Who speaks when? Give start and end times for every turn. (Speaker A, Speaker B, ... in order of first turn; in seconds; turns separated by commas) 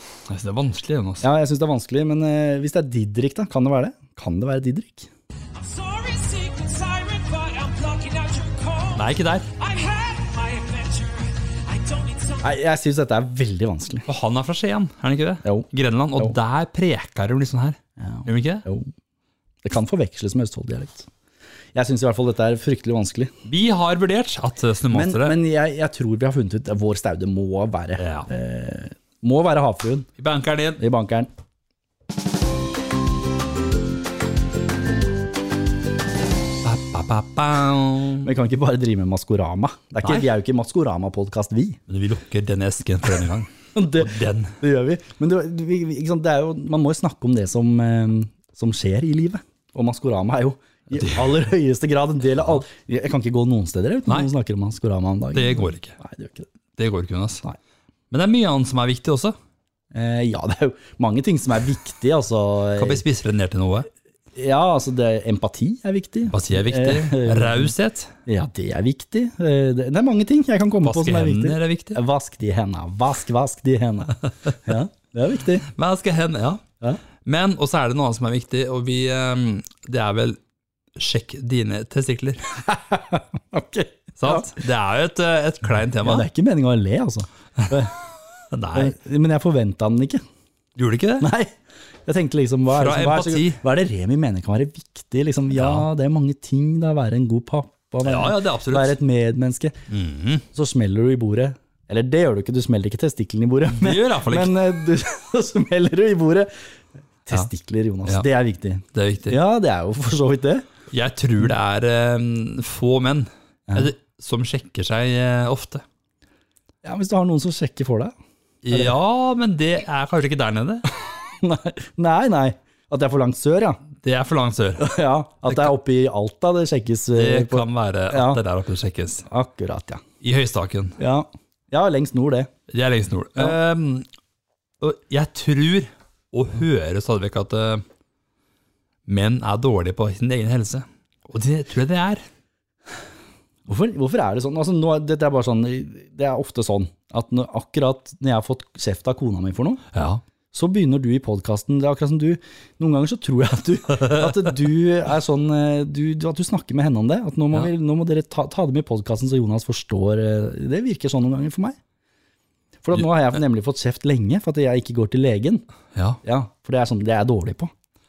Speaker A: 0.2-1.3, Speaker B: 1.2-5.1, Speaker C: 5.5-12.6, Speaker A: 8.9-9.5, Speaker B: 12.4-14.1, Speaker A: 14.1-18.6, Speaker B: 15.4-16.4, Speaker B: 18.0-18.9, Speaker B: 19.6-21.1, Speaker B: 21.7-23.3, Speaker A: 23.4-25.4, Speaker B: 24.9-30.1, Speaker A: 28.0-28.3, Speaker A: 30.2-30.8, Speaker B: 30.8-31.3, Speaker A: 36.6-38.3, Speaker B: 38.2-41.8, Speaker A: 40.0-40.3, Speaker A: 41.9-44.6, Speaker B: 43.7-56.5, Speaker A: 51.0-51.3, Speaker A: 55.3-56.0, Speaker A: 56.8-57.4, Speaker A: 58.1-59.4, Speaker B: 59.9-63.0, Speaker A: 62.8-63.9, Speaker B: 64.3-67.7, Speaker A: 66.3-68.1, Speaker B: 68.2-75.7, Speaker A: 70.8-72.0, Speaker A: 75.6-76.6, Speaker A: 77.2-80.4, Speaker A: 81.0-82.4, Speaker B: 82.7-84.6, Speaker A: 84.2-86.3, Speaker B: 86.0-87.9, Speaker A: 88.5-89.0, Speaker B: 88.7-90.2, Speaker A: 90.8-91.3, Speaker B: 91.2-91.5, Speaker B: 92.0-99.8, Speaker A: 92.7-93.6, Speaker A: 95.5-95.9, Speaker A: 98.0-99.0, Speaker A: 99.9-100.5, Speaker B: 100.5-106.5, Speaker A: 103.7-104.7, Speaker B: 107.2-110.7, Speaker A: 108.9-109.4, Speaker A: 110.9-115.8, Speaker B: 113.7-113.9, Speaker B: 116.8-118.1, Speaker A: 118.6-120.8, Speaker B: 121.4-123.8, Speaker A: 124.0-124.9, Speaker B: 124.8-128.4, Speaker A: 125.5-125.7, Speaker A: 127.1-129.2, Speaker B: 129.2-130.0, Speaker A: 130.2-131.0, Speaker B: 131.0-132.5, Speaker A: 132.7-134.1, Speaker A: 134.8-137.8, Speaker A: 139.1-142.2, Speaker B: 143.7-149.8, Speaker A: 149.9-150.2, Speaker B: 150.5-161.8, Speaker A: 153.9-154.5, Speaker B: 162.8-165.6, Speaker A: 165.9-166.2, Speaker B: 166.2-167.7